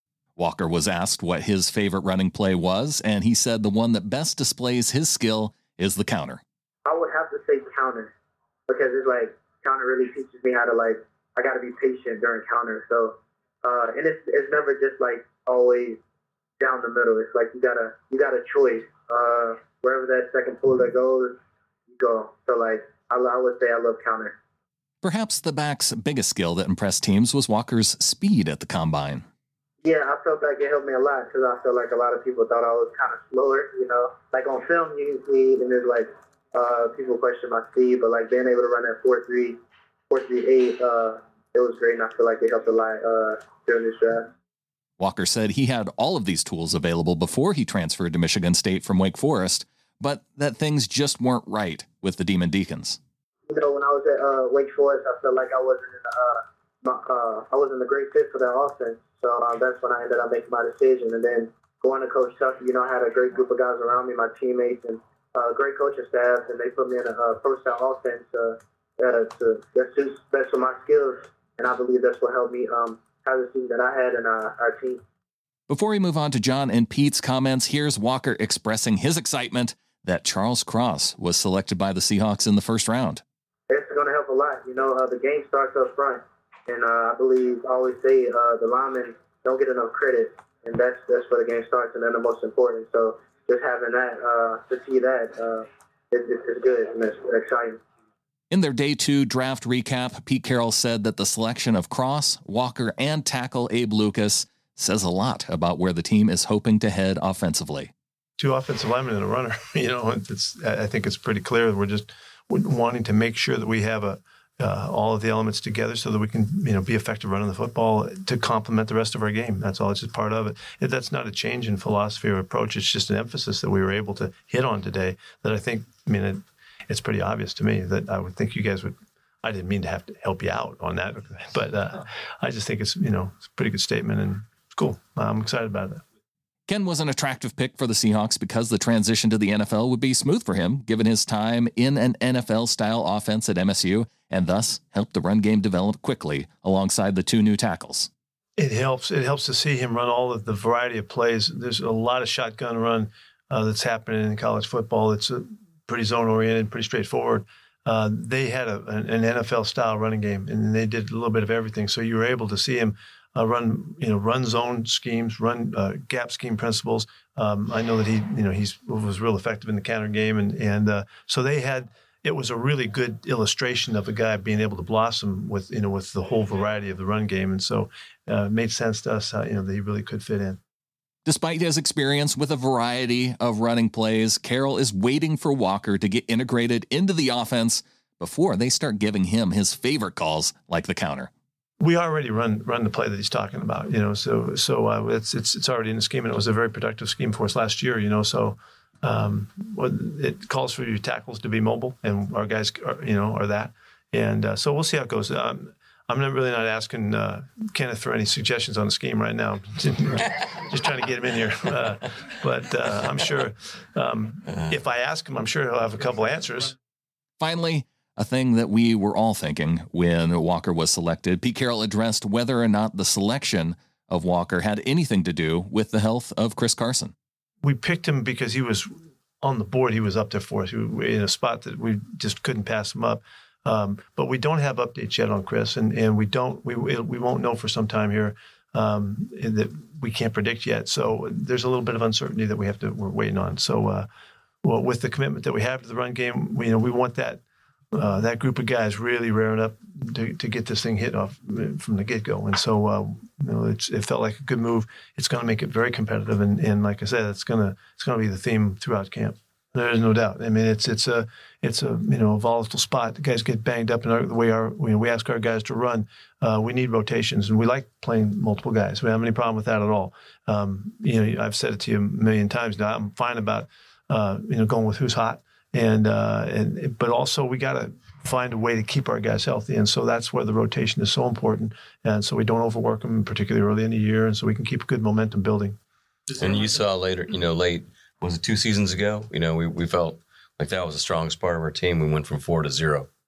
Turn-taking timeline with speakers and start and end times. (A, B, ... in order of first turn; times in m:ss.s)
0:00.4-0:06.4 A
0:06.8-0:08.1 B
0:08.7-0:16.0 B
0:16.6-0:21.3 B
0:21.9-0:24.4 B
0:25.0-0:29.2 A
0:29.8-0:44.3 B
0:45.0-0:53.0 A
0:53.5-1:15.0 B
1:15.7-1:23.2 A
1:23.7-1:37.8 B
1:38.5-1:47.9 A
1:48.4-2:16.0 C
2:16.7-2:28.1 A
2:28.6-3:00.6 C
3:01.2-3:11.3 A
3:11.8-3:36.7 C
3:37.4-3:47.1 A
3:47.6-4:04.1 C
4:04.6-4:07.4 C
4:07.9-4:45.8 C
4:46.3-4:53.1 D